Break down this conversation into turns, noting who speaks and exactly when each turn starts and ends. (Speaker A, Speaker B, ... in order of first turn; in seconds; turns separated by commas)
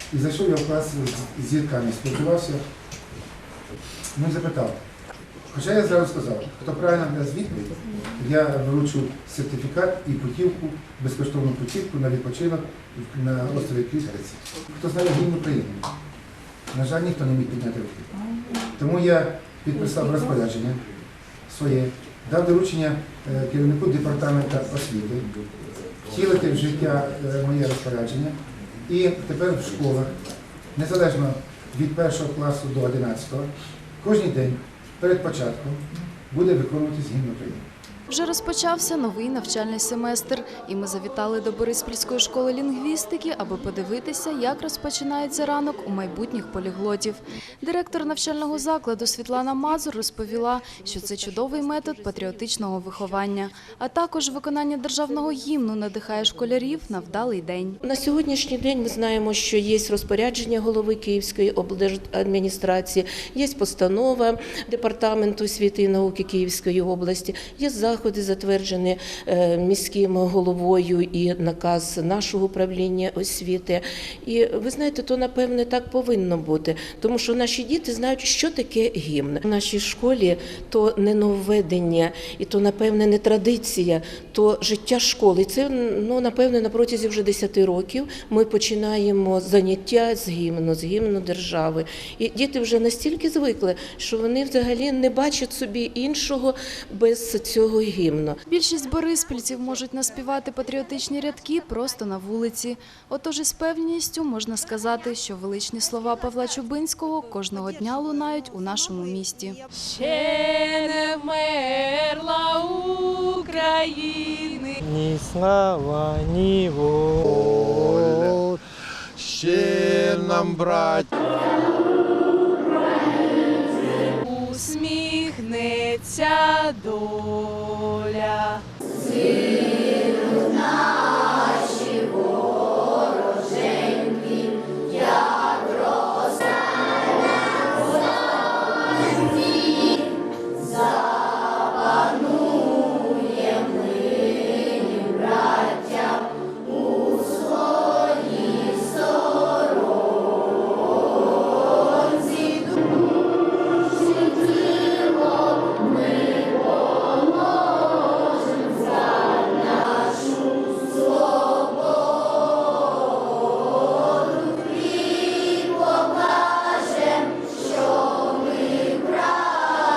Speaker A: 0.1-2.6, Speaker A: 4.2-4.8, Speaker A: 5.5-15.9, Speaker A: 16.7-20.9, Speaker A: 21.5-25.3, Speaker A: 26.0-30.2, Speaker A: 30.8-37.7, Speaker B: 38.1-57.8, Speaker C: 57.8-98.4, Speaker B: 98.5-109.6, Speaker D: 109.8-114.8, Speaker E: 114.8-118.5, Speaker F: 117.3-118.4, Speaker F: 119.1-121.1, Speaker D: 124.2-128.6